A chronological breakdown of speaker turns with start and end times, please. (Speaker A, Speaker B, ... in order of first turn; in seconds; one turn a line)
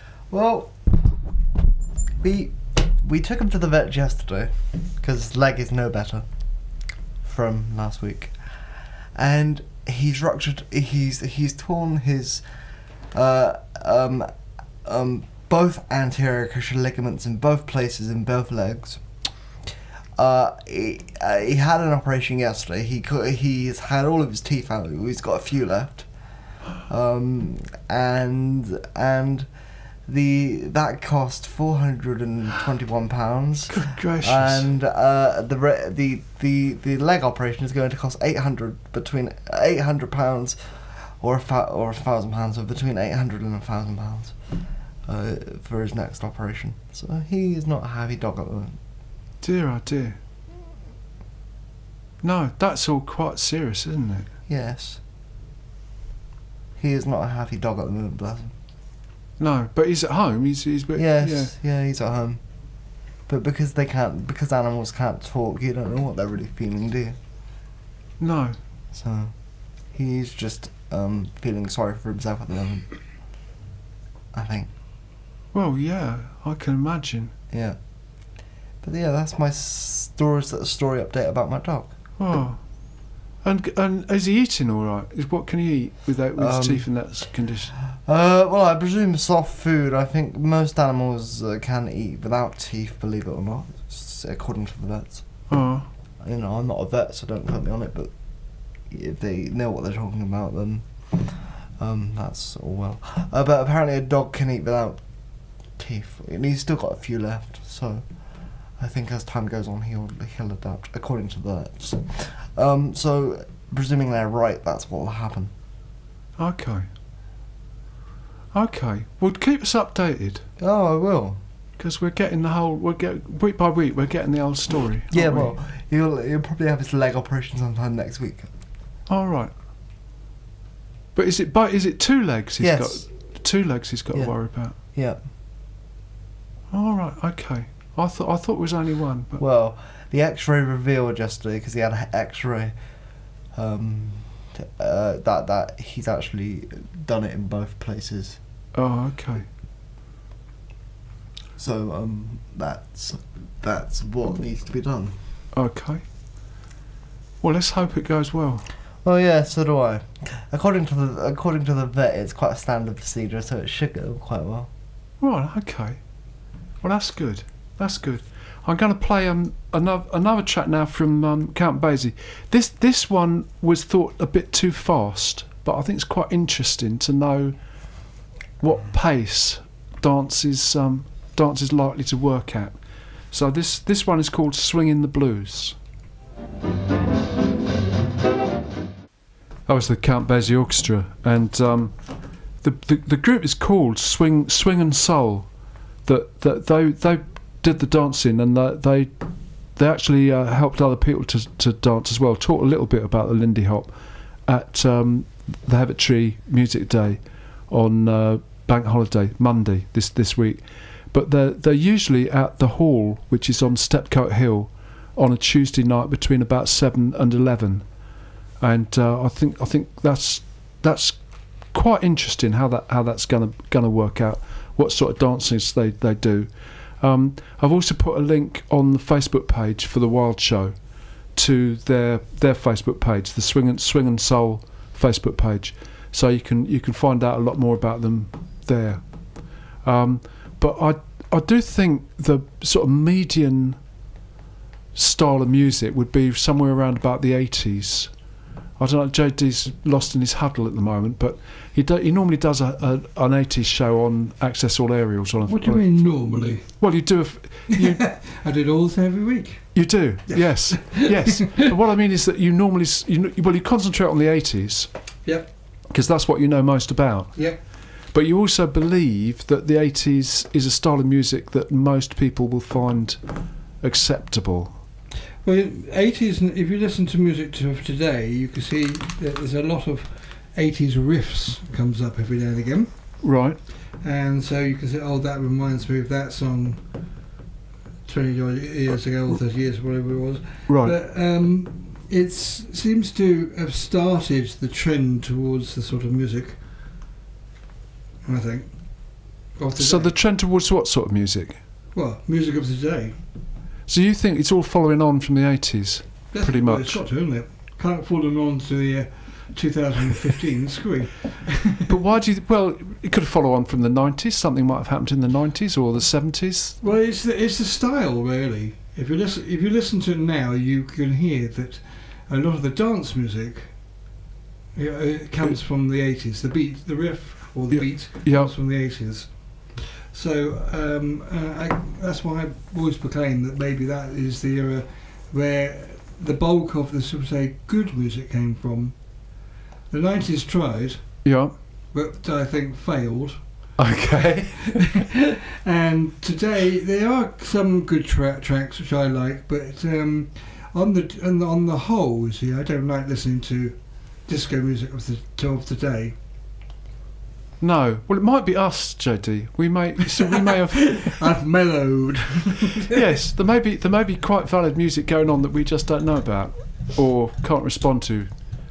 Speaker A: 0.3-0.8
Speaker A: 2.2-6.3
Speaker A: 7.2-8.3
Speaker A: 9.2-12.4
Speaker A: 13.1-14.3
Speaker A: 14.8-19.0
Speaker A: 20.2-26.1
Speaker A: 26.9-29.5
Speaker A: 30.1-44.4
Speaker B: 33.7-34.7
Speaker A: 45.1-48.8
Speaker B: 49.4-50.2
Speaker B: 52.2-54.3
Speaker A: 54.5-55.0
Speaker A: 56.8-58.5
Speaker B: 59.4-61.5
Speaker A: 61.0-62.4
Speaker A: 63.3-67.2
Speaker B: 68.2-68.6
Speaker A: 68.9-69.3
Speaker A: 69.9-72.9
Speaker A: 74.3-74.7
Speaker B: 75.5-77.3
Speaker A: 77.5-77.8
Speaker A: 78.8-81.9
Speaker B: 82.2-82.6
Speaker B: 83.4-87.7
Speaker A: 86.4-86.9
Speaker A: 88.0-95.2
Speaker B: 95.5-95.9
Speaker A: 96.2-98.1
Speaker A: 98.9-105.0
Speaker A: 105.8-108.0
Speaker A: 108.8-115.5
Speaker B: 116.4-116.9
Speaker B: 118.5-120.5
Speaker A: 120.6-121.4
Speaker B: 121.8-125.5
Speaker A: 125.1-128.5
Speaker B: 129.1-129.5
Speaker B: 131.2-134.8
Speaker A: 132.6-133.1
Speaker A: 134.1-135.2
Speaker B: 136.7-139.4
Speaker A: 139.4-142.8
Speaker A: 143.5-148.4
Speaker B: 148.8-149.5
Speaker A: 151.6-155.2
Speaker B: 155.5-156.1
Speaker B: 157.4-158.7
Speaker A: 159.0-164.7
Speaker B: 165.2-166.0
Speaker B: 166.8-177.6
Speaker B: 178.6-182.8
Speaker B: 183.3-185.8
Speaker B: 189.7-191.9
Speaker B: 192.6-195.5
Speaker B: 196.1-199.1
Speaker B: 199.8-203.9
Speaker B: 204.5-217.8
Speaker B: 218.6-221.2
Speaker B: 221.7-226.5
Speaker B: 227.0-230.8
Speaker B: 231.3-239.0
Speaker B: 239.8-243.8
Speaker B: 244.9-248.1
Speaker B: 248.8-255.9
Speaker C: 255.5-256.8
Speaker B: 256.7-258.1
Speaker C: 257.7-261.4
Speaker B: 259.7-264.9
Speaker B: 265.9-267.6
Speaker B: 268.1-273.2
Speaker B: 273.8-274.8
Speaker C: 275.4-282.9
Speaker B: 283.2-283.6
Speaker C: 284.0-286.8
Speaker C: 288.1-296.6
Speaker B: 290.7-290.9
Speaker C: 298.2-300.1
Speaker B: 299.8-301.6
Speaker C: 301.9-303.2
Speaker B: 303.9-307.0
Speaker C: 306.3-311.8
Speaker B: 311.9-316.8
Speaker C: 316.8-323.7
Speaker C: 324.8-339.0
Speaker B: 327.7-328.5
Speaker C: 339.9-341.2
Speaker B: 341.2-341.5
Speaker C: 341.9-343.4
Speaker B: 343.8-345.0
Speaker C: 344.7-356.1
Speaker B: 357.6-361.1
Speaker C: 360.3-362.9
Speaker B: 362.9-368.3